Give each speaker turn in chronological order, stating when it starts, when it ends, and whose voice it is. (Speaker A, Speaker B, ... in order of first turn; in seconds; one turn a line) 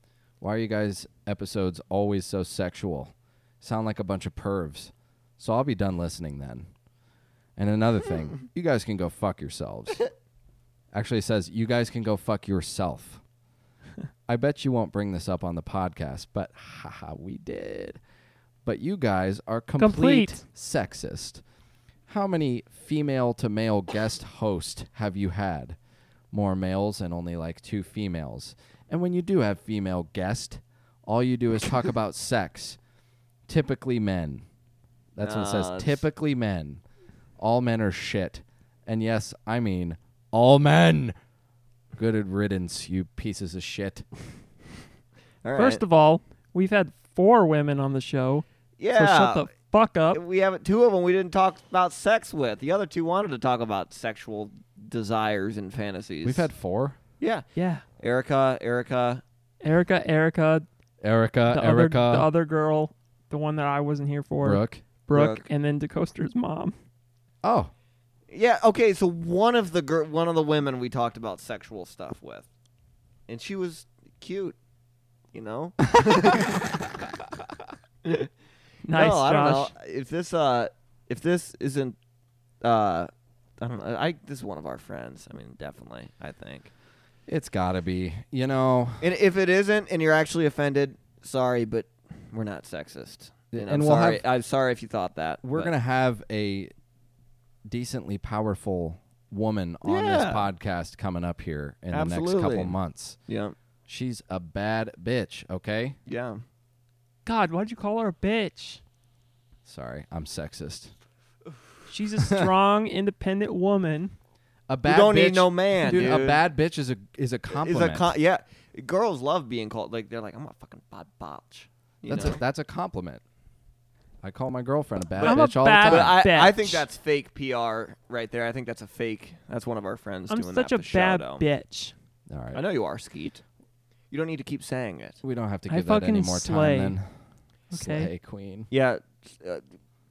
Speaker A: 0.4-6.7
Speaker A: 7.6-10.1
Speaker A: 10.9-13.2
Speaker A: 14.3-18.0
Speaker A: 18.6-21.4
Speaker B: 19.8-20.4
Speaker A: 22.1-25.8
Speaker A: 26.3-32.8
Speaker A: 33.5-34.5
Speaker A: 35.1-36.8
Speaker C: 35.2-36.0
Speaker A: 37.4-41.2
Speaker A: 41.9-44.1
Speaker C: 45.4-45.8
Speaker B: 45.6-50.2
Speaker C: 48.8-49.5
Speaker C: 50.1-56.5
Speaker A: 56.2-57.0
Speaker C: 57.2-57.5
Speaker B: 57.5-57.8
Speaker C: 58.0-59.2
Speaker B: 59.6-60.7
Speaker A: 61.0-62.3
Speaker B: 61.5-66.7
Speaker A: 64.4-64.8
Speaker C: 65.1-65.5
Speaker A: 67.4-67.7
Speaker C: 68.3-72.5
Speaker C: 73.3-74.6
Speaker C: 75.3-76.7
Speaker C: 78.0-78.3
Speaker B: 78.9-79.7
Speaker C: 78.9-82.0
Speaker C: 82.6-86.7
Speaker A: 87.3-89.1
Speaker C: 89.0-95.7
Speaker A: 93.5-94.2
Speaker A: 95.4-96.7
Speaker A: 97.7-103.2
Speaker C: 99.8-100.5
Speaker C: 101.9-103.5
Speaker A: 103.9-106.0
Speaker C: 106.1-106.4
Speaker B: 107.3-108.8
Speaker A: 109.7-110.9
Speaker B: 111.9-114.2
Speaker A: 112.2-112.5
Speaker A: 114.7-118.1
Speaker C: 114.8-116.4
Speaker C: 117.5-122.4
Speaker A: 122.1-123.2
Speaker A: 124.2-126.2
Speaker B: 125.2-126.8
Speaker C: 125.2-131.4
Speaker B: 130.3-131.9
Speaker A: 132.3-132.6
Speaker C: 132.5-133.4
Speaker C: 134.1-135.2
Speaker A: 135.2-137.1
Speaker B: 135.7-137.0
Speaker B: 137.7-138.1
Speaker A: 137.7-138.7
Speaker C: 138.7-139.7